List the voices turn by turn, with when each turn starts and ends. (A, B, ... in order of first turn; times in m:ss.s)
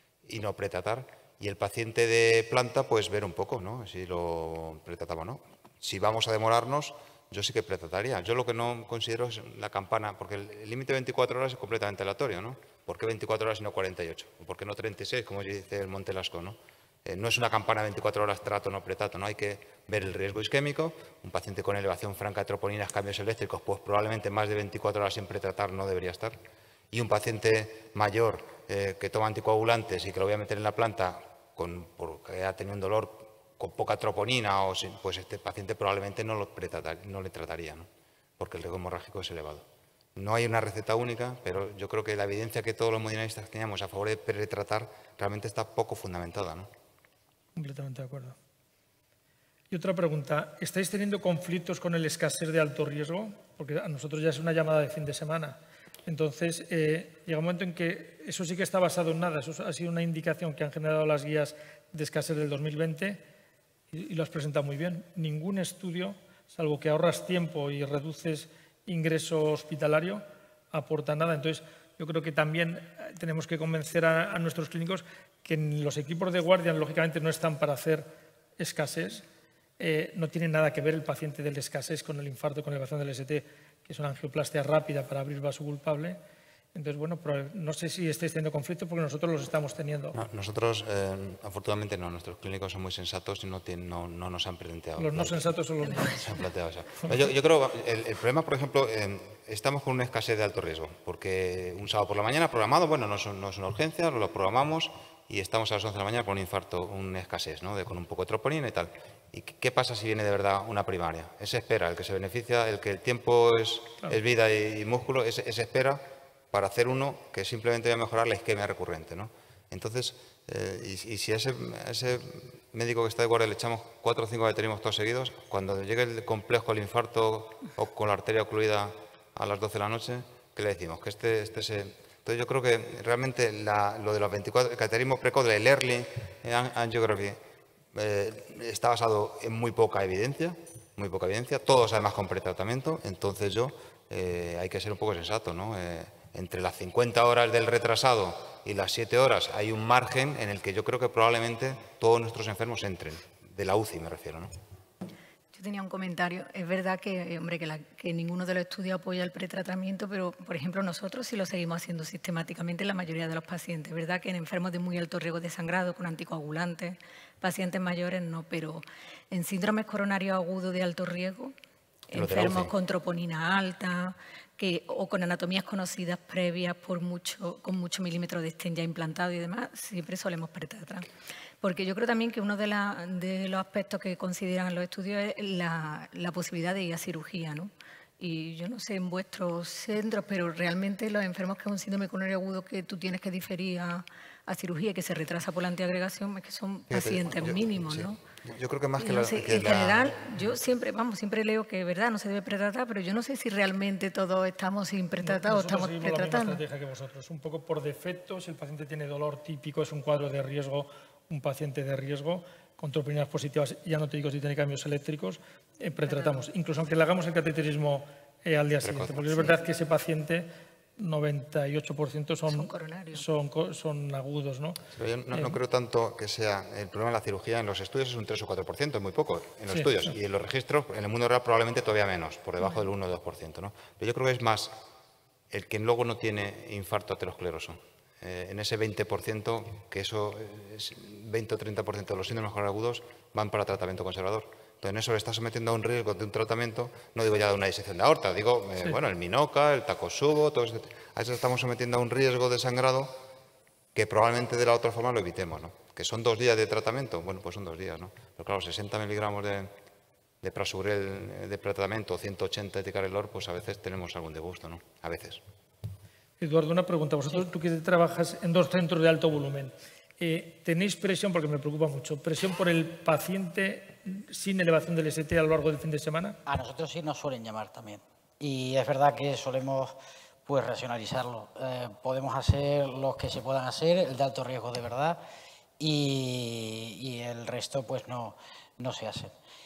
0:00.2-0:26.4 A
0:26.9-0:37.9 A
0:38.4-0:46.7 A
0:47.5-0:48.4 B
0:49.7-1:03.2 B
1:03.9-1:18.1 B
1:18.6-1:19.2 B
1:19.8-1:26.2 B
1:26.7-1:30.2 B
1:30.1-1:35.4 A
1:35.0-1:36.3 B
1:36.1-2:17.4 A
2:17.9-2:34.5 A
2:35.5-2:51.5 C
2:52.1-3:01.1 C
2:52.1-2:52.7 A
3:01.6-3:18.2 C
3:16.9-3:20.2 A
3:19.0-3:26.6 C
3:25.2-3:40.5 B
3:36.1-3:36.4 C
3:38.8-3:39.5 A
3:41.0-3:44.8 B
3:42.5-3:43.2 C
3:44.9-3:54.7 A
3:55.5-4:13.2 A
4:13.9-4:19.7 A
4:20.4-4:25.4 A
4:26.4-4:36.4 B
4:36.4-4:45.2 D
4:45.8-4:49.3 D